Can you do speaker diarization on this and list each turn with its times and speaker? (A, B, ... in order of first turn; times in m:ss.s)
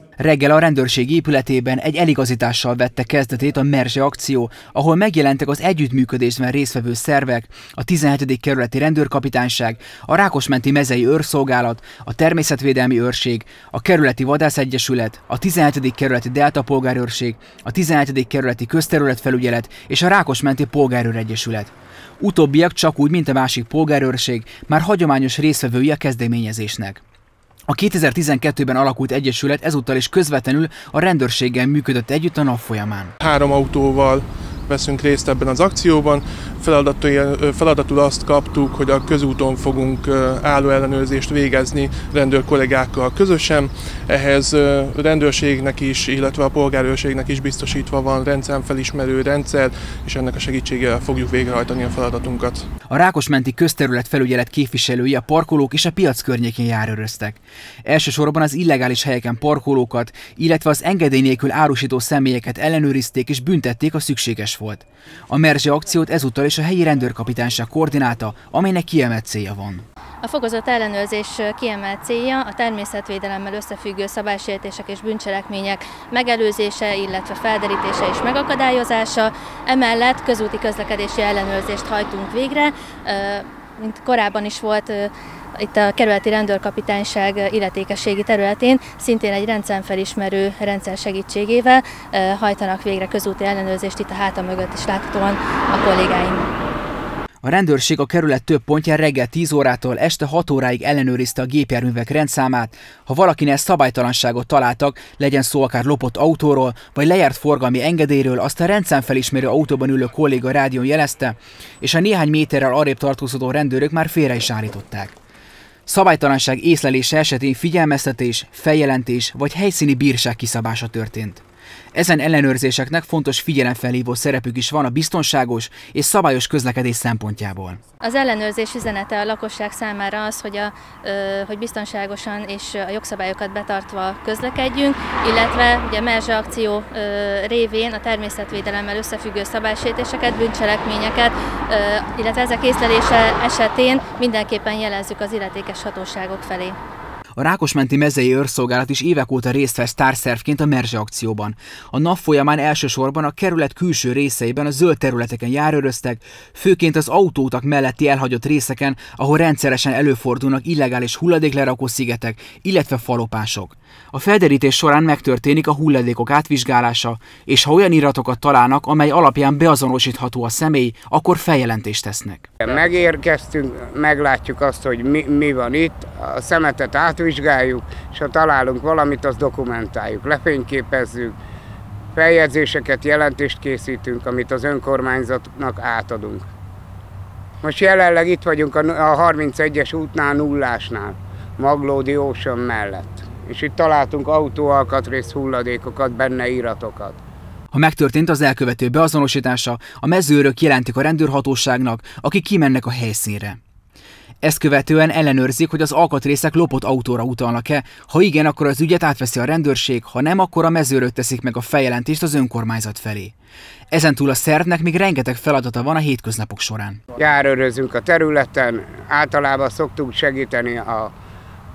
0:00.2-0:27.0 A
0:27.7-0:33.1 A
0:33.2-0:52.7 B
0:52.9-1:09.8 A
1:10.2-1:36.5 C
1:37.4-1:55.1 A
1:55.9-2:01.4 A
2:01.9-2:07.8 A
2:08.0-2:26.8 C
2:27.4-2:52.5 A
2:52.6-3:01.3 D
3:02.1-3:06.5 D
3:07.6-3:17.2 D
3:17.7-3:23.6 A
3:24.4-3:33.3 A
3:33.9-3:37.0 A
3:37.2-3:41.1 D